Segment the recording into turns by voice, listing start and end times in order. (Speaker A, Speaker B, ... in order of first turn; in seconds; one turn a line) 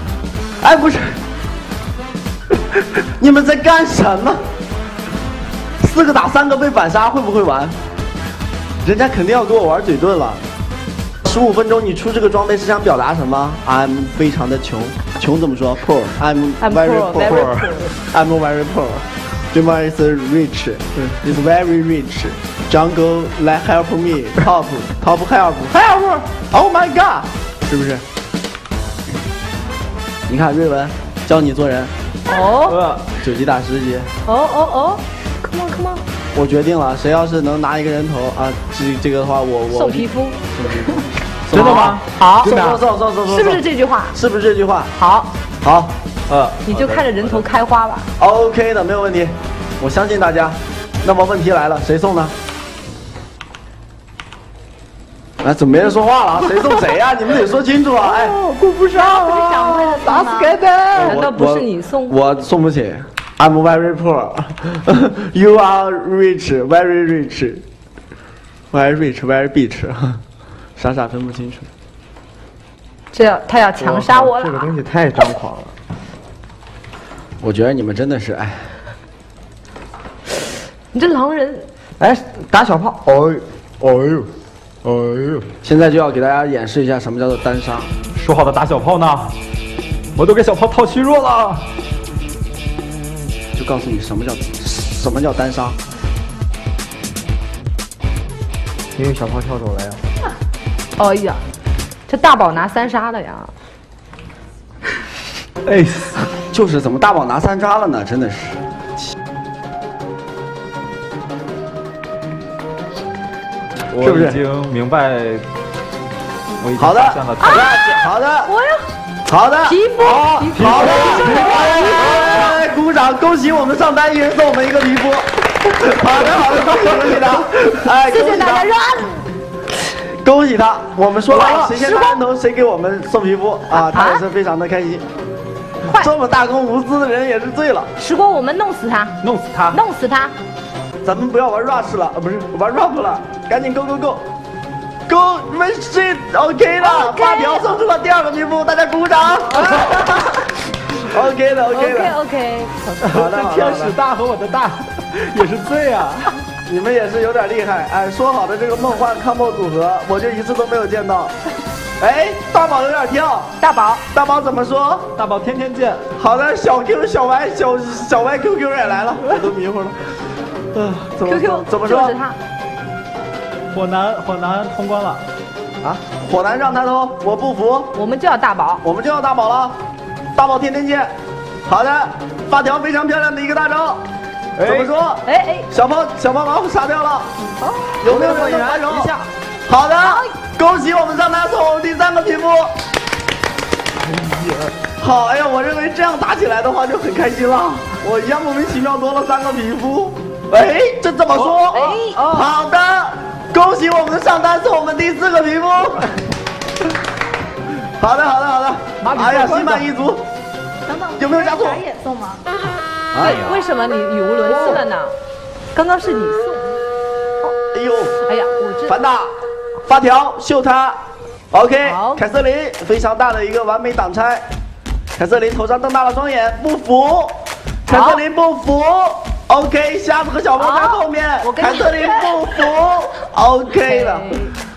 Speaker A: 0.6-1.2
Speaker A: 3.2-4.4
Speaker A: 5.8-7.8
Speaker A: 8.8-10.4
Speaker A: 11.2-28.0
Speaker B: 16.6-17.9
Speaker A: 30.3-31.9
Speaker B: 32.3-32.8
Speaker C: 32.7-33.0
Speaker A: 33.2-34.1
Speaker B: 34.3-36.0
Speaker A: 36.3-44.9
Speaker B: 39.7-40.4
Speaker C: 41.5-42.8
Speaker B: 41.6-41.8
Speaker B: 43.3-44.2
Speaker B: 45.0-45.3
Speaker A: 45.6-46.0
Speaker C: 46.3-47.5
Speaker B: 46.7-48.1
Speaker A: 48.2-52.3
Speaker A: 55.4-67.6
Speaker D: 58.8-60.6
Speaker B: 61.0-62.2
Speaker A: 68.7-70.2
Speaker A: 70.8-71.7
Speaker B: 73.1-74.7
Speaker E: 73.8-75.7
Speaker A: 77.4-78.7
Speaker B: 80.9-81.7
Speaker E: 82.0-84.3
Speaker E: 84.8-85.5
Speaker A: 85.6-87.9
Speaker C: 88.1-89.3
Speaker C: 90.2-91.7
Speaker A: 93.5-95.8
Speaker E: 99.0-100.0
Speaker B: 101.0-101.4
Speaker B: 102.1-103.5
Speaker C: 105.7-106.3
Speaker A: 106.5-109.1
Speaker C: 113.9-115.5
Speaker A: 114.0-114.4
Speaker C: 116.6-117.7
Speaker A: 116.8-118.5
Speaker B: 117.4-117.8
Speaker B: 118.5-118.8
Speaker A: 119.2-128.7
Speaker B: 119.7-122.5
Speaker C: 120.6-122.0
Speaker B: 128.1-129.3
Speaker A: 130.1-135.1
Speaker B: 131.3-132.2
Speaker B: 133.7-134.2
Speaker B: 135.8-136.1
Speaker A: 135.8-137.9
Speaker B: 138.0-139.2
Speaker C: 139.2-139.8
Speaker B: 139.7-140.3
Speaker A: 141.0-144.3
Speaker A: 145.1-150.3
Speaker B: 146.8-147.7
Speaker B: 149.6-150.2
Speaker A: 150.9-152.2
Speaker B: 151.7-152.8
Speaker C: 153.0-156.3
Speaker A: 153.1-154.0
Speaker A: 156.7-161.3
Speaker A: 162.0-163.5
Speaker B: 163.6-164.0
Speaker A: 164.1-165.1
Speaker C: 165.2-166.1
Speaker A: 166.2-170.1
Speaker A: 170.7-172.2
Speaker B: 171.2-172.4
Speaker C: 173.7-175.2
Speaker A: 175.8-177.9
Speaker B: 177.9-178.8
Speaker A: 178.8-179.8
Speaker A: 180.3-181.1
Speaker A: 181.7-184.1
Speaker E: 184.6-184.9
Speaker A: 184.6-187.3
Speaker B: 185.2-185.7
Speaker A: 188.0-189.2
Speaker E: 188.0-189.2
Speaker A: 189.7-192.7
Speaker B: 190.0-190.3
Speaker E: 194.2-194.8
Speaker A: 195.0-206.2
Speaker B: 201.7-202.5
Speaker A: 208.0-210.2
Speaker B: 209.0-209.8
Speaker D: 210.8-212.4
Speaker A: 211.2-211.8
Speaker A: 213.1-213.4
Speaker C: 213.2-213.7
Speaker B: 213.2-215.2
Speaker A: 214.5-214.8
Speaker B: 215.7-216.8
Speaker A: 217.7-218.2
Speaker B: 218.2-219.0
Speaker A: 218.9-221.0
Speaker A: 221.5-224.5
Speaker B: 221.8-222.2
Speaker A: 225.2-234.3
Speaker B: 227.9-228.2
Speaker B: 230.6-232.3
Speaker B: 233.8-234.5